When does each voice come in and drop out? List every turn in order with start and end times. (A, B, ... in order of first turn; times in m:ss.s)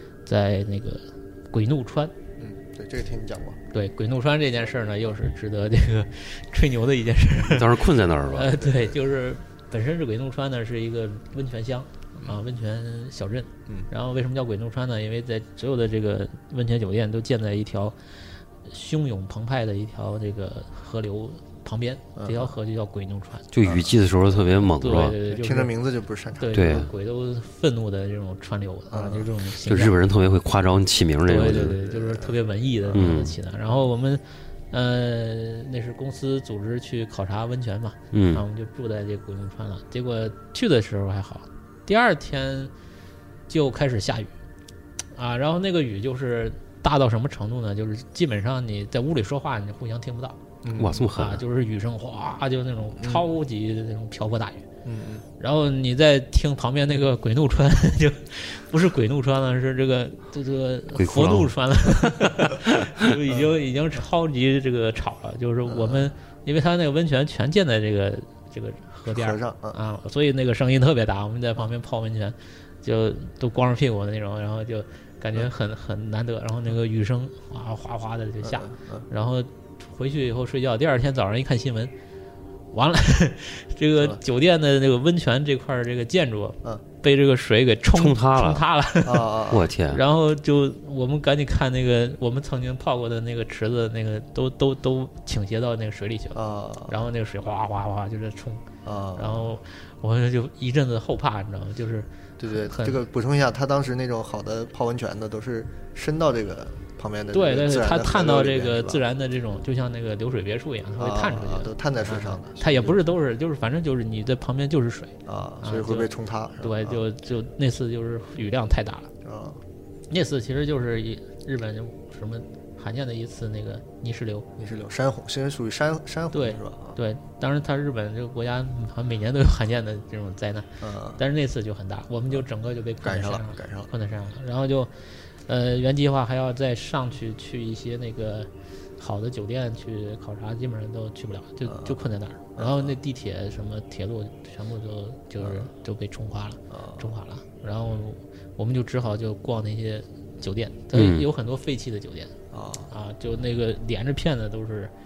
0:00.2-0:02.1 A
0:02.4-0:03.6 B
0:03.7-0:18.0 A
0:07.4-0:08.6 C
0:08.6-0:08.9 B
0:18.6-0:23.5 A
0:22.2-0:22.5 B
0:23.5-0:25.2 C
0:23.6-0:23.9 B
0:24.8-0:25.7 A
0:25.2-0:26.6 B
0:26.4-0:30.0 A
0:26.5-0:26.9 C
0:28.9-0:29.3 B
0:29.6-0:31.8 C
0:31.2-0:42.7 A
0:31.7-0:32.3 B
0:32.9-0:33.3 C
0:38.1-0:38.4 C
0:43.5-0:44.3 A
0:45.1-0:50.4 A
0:50.6-0:51.0 B
0:50.8-0:51.4 C
0:51.1-0:54.7 A
0:53.0-0:53.2 B
0:54.8-0:55.2 B
0:55.4-1:21.9 A
1:00.9-1:01.5 C
1:05.6-1:06.1 B
1:09.1-1:09.8 B
1:18.4-1:19.0 B
1:22.7-1:38.6 A
1:27.9-1:28.6 C
1:29.0-1:29.7 B
1:29.5-1:30.0 C
1:36.3-1:37.0 B
1:38.8-1:39.5 B
1:39.2-1:43.0 A
1:42.4-1:49.0 B
1:47.3-1:59.1 A
1:51.0-1:53.0 B
1:55.2-1:57.0 B
1:59.2-1:59.6 B
2:00.1-2:04.5 A
2:04.6-2:07.0 B
2:06.3-2:32.3 A
2:10.8-2:11.2 B
2:13.0-2:13.9 B
2:21.6-2:23.0 B
2:25.4-2:25.7 B
2:26.7-2:27.1 B
2:30.9-2:31.2 C
2:32.5-2:32.9 B
2:32.9-2:34.9 A